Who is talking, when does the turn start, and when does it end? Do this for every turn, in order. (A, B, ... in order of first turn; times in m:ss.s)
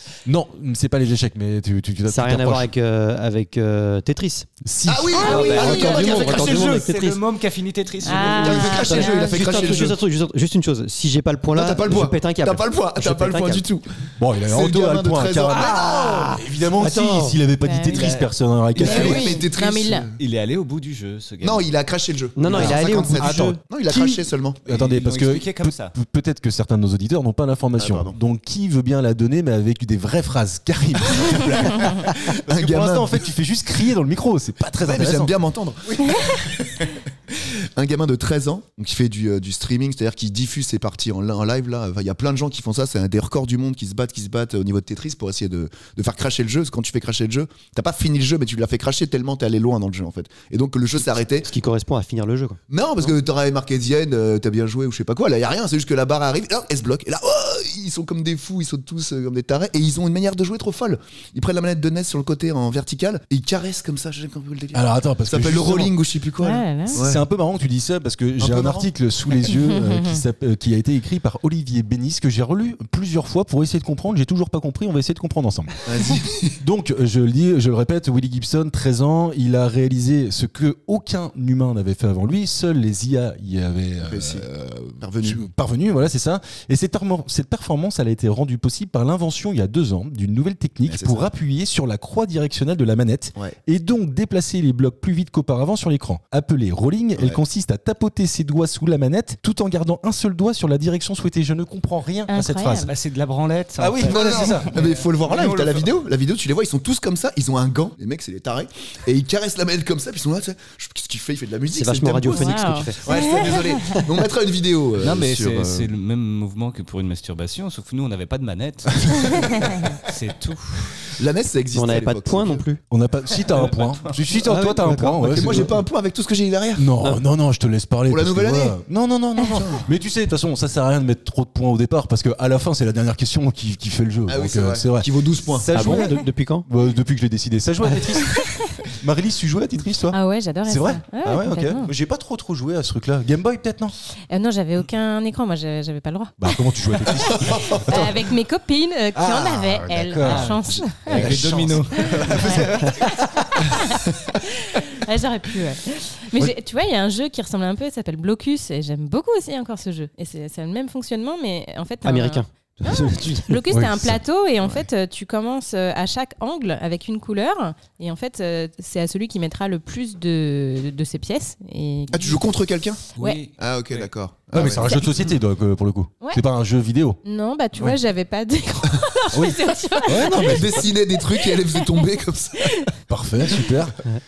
0:00.2-0:02.7 A
0:02.1-0:04.5 B
0:04.6-0:06.0 A
0:04.9-0:06.7 C
0:05.2-0:08.8 D
0:05.2-0:07.2 B
0:05.2-0:05.7 E
0:08.0-0:09.8 E
0:08.1-0:13.6 B
0:08.3-0:10.0 C
0:11.5-0:16.3 C
0:14.2-0:19.3 A
0:15.5-0:17.4 B
0:17.6-0:18.1 E
0:17.9-0:19.1 D
0:18.8-0:20.2 C
0:18.8-0:20.1 E
0:20.2-0:21.7 D
0:21.4-0:24.6 C
0:22.4-0:23.6 B
0:22.5-0:22.8 D
0:22.5-0:35.3 A
0:24.7-0:26.0 D
0:27.8-0:28.2 C
0:31.6-0:33.2 C
0:34.8-0:51.5 C
0:51.4-0:52.6 B
0:52.7-1:07.2 C
1:04.7-1:06.0 A
1:06.4-1:07.0 E
1:06.9-1:15.8 A
1:08.4-1:08.9 C
1:09.6-1:10.2 E
1:15.8-1:16.6 C
1:16.6-1:24.5 A
1:24.0-1:25.5 C
1:25.2-1:42.9 A
1:30.9-1:31.3 C
1:42.3-1:42.9 E
1:42.8-1:46.0 D
1:43.8-1:44.8 A
1:44.0-1:55.9 C
1:51.7-1:54.0 B
1:52.3-1:54.0 E
1:55.0-2:01.0 D
1:59.2-2:00.0 E
2:01.2-2:02.6 C
2:01.7-2:02.8 B
2:02.9-2:05.8 A
2:03.4-2:04.2 D
2:04.4-2:05.8 B
2:05.3-2:06.9 C
2:06.8-2:23.9 A
2:08.1-2:08.8 C
2:09.5-2:09.9 C
2:14.3-2:15.7 C
2:15.7-2:16.7 B
2:18.4-2:18.7 E
2:20.1-2:21.9 E
2:24.3-2:31.3 E
2:26.4-2:28.3 A
2:29.2-2:33.8 A
2:30.2-2:33.0 D
2:32.0-2:52.5 E
2:42.0-2:43.6 B
2:43.7-2:44.2 A
2:52.1-2:55.0 C
2:53.2-2:53.5 E
2:53.2-2:54.1 D
2:54.5-2:57.2 A
2:57.2-3:02.1 E
2:59.3-3:00.9 A
3:00.4-3:02.9 C
3:02.6-3:02.9 E
3:03.1-3:04.0 A